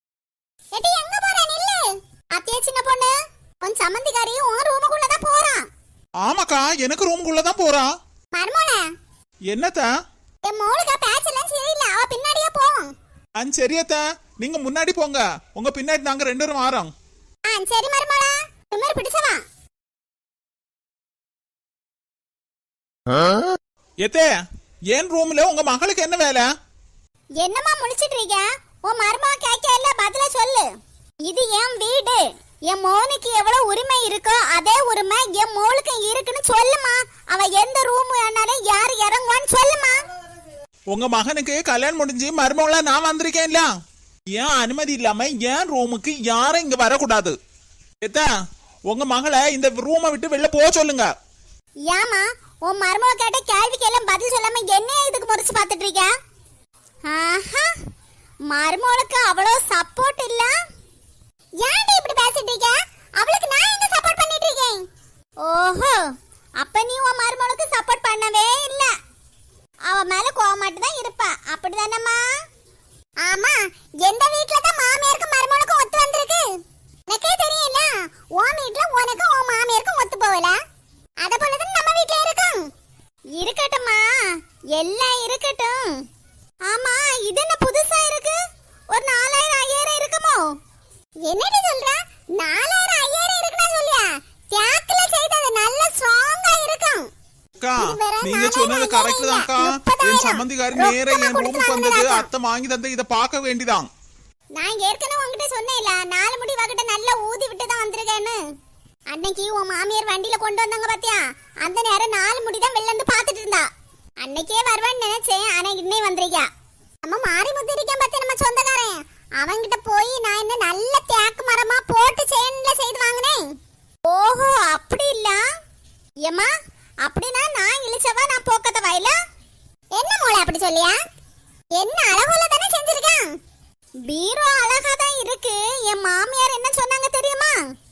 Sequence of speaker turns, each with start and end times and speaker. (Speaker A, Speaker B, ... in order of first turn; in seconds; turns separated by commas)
Speaker A: 0.7-5.6, Speaker B: 6.2-7.9, Speaker A: 8.3-8.8, Speaker B: 9.5-9.9, Speaker A: 10.4-12.9, Speaker B: 13.4-16.9, Speaker A: 17.5-19.4, Speaker B: 24.0-24.3, Speaker B: 24.9-26.5, Speaker A: 27.4-30.7, Speaker A: 31.2-40.0, Speaker B: 40.9-43.7, Speaker B: 44.4-47.3, Speaker B: 48.0-48.3, Speaker B: 48.9-51.1, Speaker A: 51.9-56.1, Speaker A: 57.0-57.7, Speaker A: 58.5-60.5, Speaker A: 61.6-64.8, Speaker A: 65.4-66.0, Speaker A: 66.6-68.9, Speaker A: 69.9-72.2, Speaker A: 73.2-76.5, Speaker A: 77.1-80.6, Speaker A: 81.2-82.6, Speaker A: 83.4-85.9, Speaker A: 86.7-88.3, Speaker A: 88.9-90.4, Speaker A: 91.2-97.0, Speaker B: 97.6-103.9, Speaker A: 97.8-102.3, Speaker A: 104.6-108.4, Speaker A: 109.1-113.7, Speaker A: 114.2-116.5, Speaker A: 117.1-123.4, Speaker A: 124.1-125.4, Speaker A: 126.2-126.5, Speaker A: 127.0-129.2, Speaker A: 129.9-131.0, Speaker A: 131.8-133.3, Speaker A: 134.1-137.6